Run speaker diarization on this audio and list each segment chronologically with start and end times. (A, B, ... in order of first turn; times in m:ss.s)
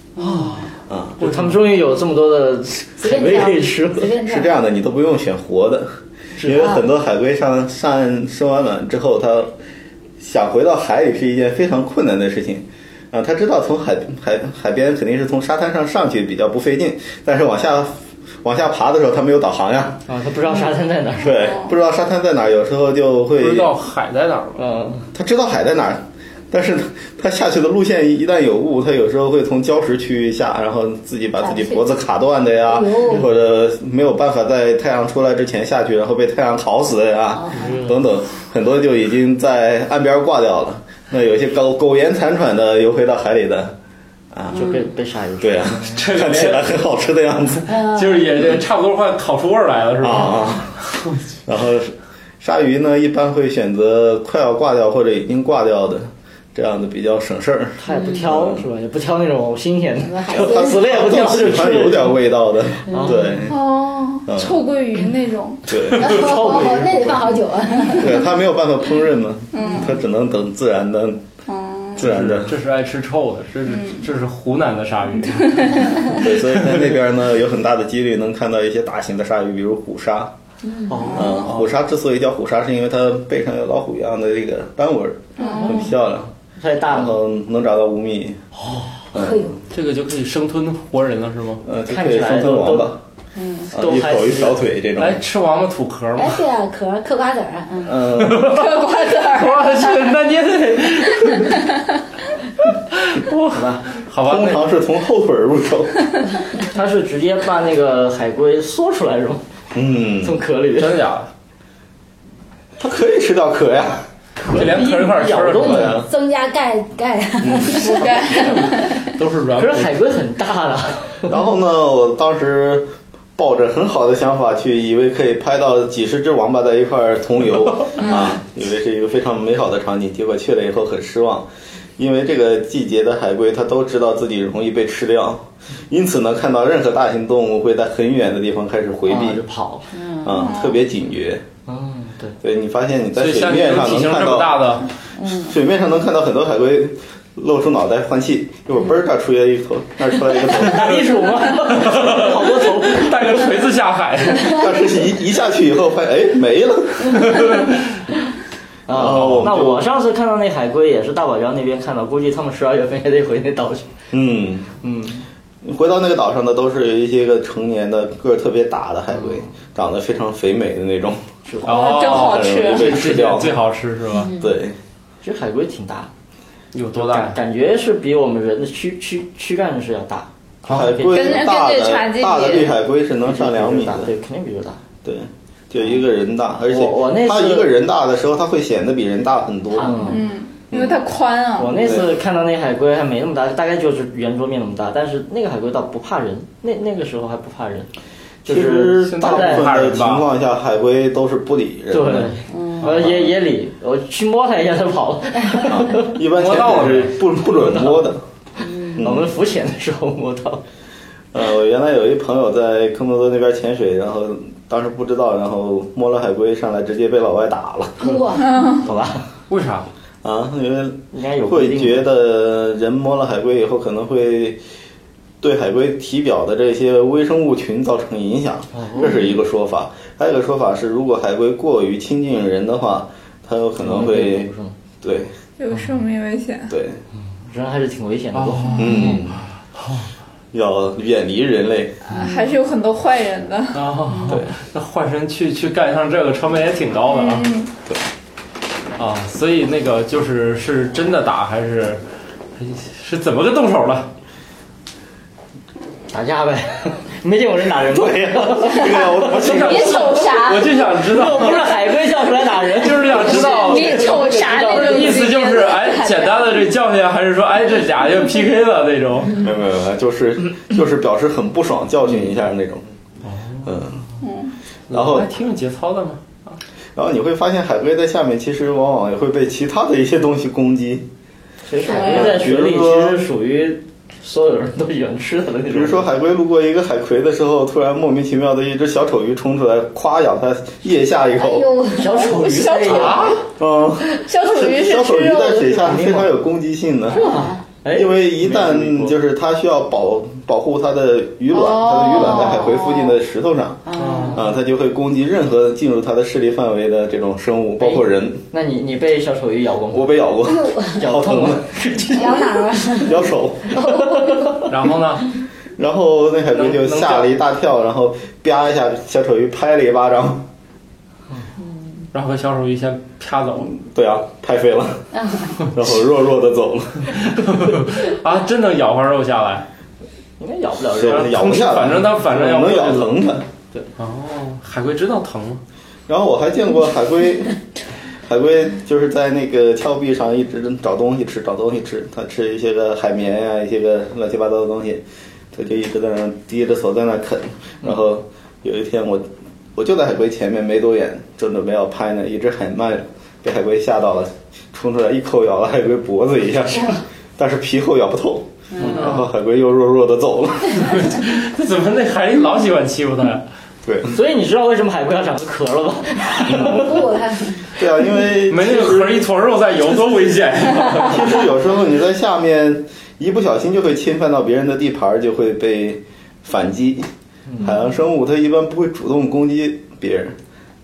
0:00.2-0:00.5 A
0:00.2-0:04.1 B
0:00.9-0:01.2 C
0:01.2-0:01.6 D
0:03.0-0:04.6 A
0:04.2-0:09.5 C
0:06.4-0:06.7 B
0:06.5-0:06.8 A
0:10.2-0:20.0 C
0:20.1-0:21.4 B
0:21.2-0:23.7 C
0:23.4-0:24.6 D
0:24.6-0:25.1 B
0:25.1-0:43.8 C
0:31.4-0:31.9 A
0:32.7-0:33.3 A
0:37.4-0:37.8 A
0:37.5-0:38.0 B
0:44.3-0:44.7 C
0:44.5-0:46.0 B
0:44.5-0:44.8 A
0:45.4-0:48.6 C
0:45.9-0:46.8 D
0:47.7-0:48.2 A
0:47.8-0:51.2 D
0:50.0-0:50.8 C
0:51.4-0:58.6 C
0:57.8-1:02.2 B
0:57.9-0:58.2 A
1:00.0-1:00.8 A
1:00.3-1:03.6 C
1:02.9-1:03.4 B
1:02.9-1:03.2 A
1:03.5-1:05.7 E
1:04.3-1:04.6 C
1:05.7-1:06.5 C
1:05.9-1:08.2 A
1:06.0-1:07.3 B
1:08.0-1:11.2 C
1:09.5-1:09.9 E
1:09.6-1:09.9 A
1:11.5-1:12.0 E
1:12.0-1:12.6 C
1:12.0-1:16.9 D
1:13.7-1:14.0 E
1:16.1-1:20.3 C
1:20.6-1:21.3 A
1:20.9-1:21.5 B
1:21.1-1:26.3 C
1:21.4-1:21.7 D
1:25.4-1:25.8 A
1:25.4-1:25.8 E
1:26.6-1:27.2 B
1:26.9-1:28.4 C
1:28.6-1:29.0 B
1:29.1-1:29.6 C
1:29.1-1:29.6 A
1:29.7-1:31.6 D
1:31.6-1:33.0 C
1:31.8-1:32.9 B
1:33.4-1:33.7 A
1:33.7-1:35.2 C
1:33.7-1:34.6 B
1:35.0-1:36.4 D
1:36.2-1:38.1 A
1:37.8-1:38.5 C
1:38.1-1:41.7 D
1:38.4-1:39.8 E
1:42.9-1:44.6 D
1:43.5-1:43.8 B
1:44.2-1:46.0 C
1:46.7-1:49.4 B
1:49.7-1:50.4 C
1:50.2-1:51.0 B
1:50.8-1:51.3 D
1:52.8-1:54.1 C
1:54.4-1:56.0 B
1:54.5-1:56.0 D
1:55.6-1:56.1 C
1:56.0-1:58.1 A
1:57.4-1:57.9 C
1:57.9-1:58.9 E
1:58.4-2:00.0 D
1:59.6-2:01.3 B
2:01.2-2:19.4 C
2:19.1-2:20.0 B
2:19.9-2:20.5 A
2:20.2-2:21.4 C
2:20.3-2:20.8 E
2:21.6-2:22.4 B
2:22.4-2:24.7 C
2:23.2-2:24.9 D
2:25.2-2:25.5 A
2:25.2-2:31.0 C
2:30.4-2:33.6 B
2:31.6-2:34.6 D
2:34.4-2:37.6 C
2:37.1-2:37.9 D
2:38.9-2:43.9 B
2:38.9-2:39.9 C
2:39.1-2:39.5 D
2:44.1-2:44.7 C
2:44.8-2:45.2 B
2:45.6-2:51.2 C
2:49.1-2:49.5 B
2:51.4-2:51.8 B
2:51.6-2:52.9 E
2:51.6-2:54.3 D
2:52.1-2:53.6 C
2:54.1-2:54.6 A
2:54.3-2:54.8 C
2:55.2-2:56.1 B
2:56.7-2:57.4 D
2:56.9-3:01.4 B
3:00.6-3:04.1 C
3:01.1-3:02.8 E
3:03.2-3:04.8 B
3:05.0-3:10.1 C
3:06.6-3:07.7 B
3:09.8-3:10.2 B
3:09.8-3:10.1 A
3:10.1-3:11.9 E
3:10.7-3:11.0 C
3:11.6-3:17.9 B
3:11.8-3:12.1 C
3:18.4-3:19.7 B
3:18.4-3:23.2 C
3:18.9-3:20.3 D
3:21.9-3:26.2 B
3:22.5-3:22.9 A
3:25.6-3:28.2 C
3:26.2-3:27.2 D
3:27.5-3:28.1 B
3:28.6-3:29.0 A
3:28.9-3:29.3 C
3:29.0-3:30.6 B
3:31.3-3:38.1 C
3:38.0-3:38.8 A
3:38.4-3:38.8 E
3:38.8-3:39.3 B
3:39.5-3:39.9 D
3:40.2-3:44.6 C
3:41.1-3:42.0 B
3:45.4-3:54.5 C
3:48.7-3:49.3 B
3:53.8-3:54.8 B
3:55.0-3:55.3 C
3:55.6-3:56.7 E
3:56.7-3:57.0 C
3:57.4-3:59.1 B
3:58.3-4:00.1 D
3:58.8-3:59.4 C
4:00.5-4:02.0 C
4:02.1-4:03.8 E
4:03.7-4:07.5 D
4:04.3-4:04.5 C
4:07.1-4:07.7 E
4:09.0-4:12.0 D
4:12.6-4:14.1 D
4:16.1-4:20.0 B
4:17.9-4:20.1 C
4:19.4-4:21.8 D
4:19.5-4:20.8 E
4:21.0-4:25.3 B
4:22.7-4:29.4 D
4:23.2-4:26.5 E
4:29.4-4:32.9 C
4:33.2-4:33.7 D
4:33.6-4:34.0 C
4:34.2-4:34.5 E
4:34.9-4:35.3 C
4:34.9-4:36.6 D
4:36.9-4:41.1 C
4:41.7-4:46.1 B
4:41.9-4:42.3 E
4:42.0-4:43.2 C
4:45.7-4:51.7 C
4:51.4-4:52.3 A
4:51.9-4:53.4 B
4:52.1-4:53.4 E
4:52.8-4:53.4 D
4:53.6-4:57.2 C
4:54.2-4:55.8 E
4:55.8-4:56.3 B
4:57.1-4:57.6 A
4:57.1-4:59.2 B
4:57.9-5:08.4 C
5:01.5-5:03.2 E
5:03.9-5:04.4 A
5:04.0-5:04.4 D
5:04.0-5:04.3 B
5:07.8-5:10.2 B
5:09.9-5:11.7 C
5:10.4-5:11.0 A
5:10.9-5:13.0 B
5:12.1-5:14.6 A
5:13.0-5:13.9 C
5:13.7-5:14.7 B
5:14.7-5:15.4 D
5:15.8-5:20.5 C
5:16.5-5:17.3 D
5:21.6-5:22.0 A
5:22.1-5:23.7 D
5:23.6-5:27.4 C
5:25.1-5:25.6 A
5:27.1-5:29.6 D
5:30.4-5:31.6 B
5:30.9-5:33.5 C
5:31.1-5:33.2 D
5:34.0-5:35.6 D
5:36.1-5:37.6 C
5:38.2-6:01.1 C
5:58.7-5:59.0 A
5:58.8-5:59.3 D
6:00.8-6:03.4 D
6:03.8-6:04.2 C
6:04.1-6:07.0 B
6:06.5-6:07.0 C
6:06.5-6:07.7 A
6:07.7-6:09.2 C
6:08.5-6:11.4 D
6:10.9-6:17.1 C
6:17.5-6:17.8 B
6:17.6-6:20.4 C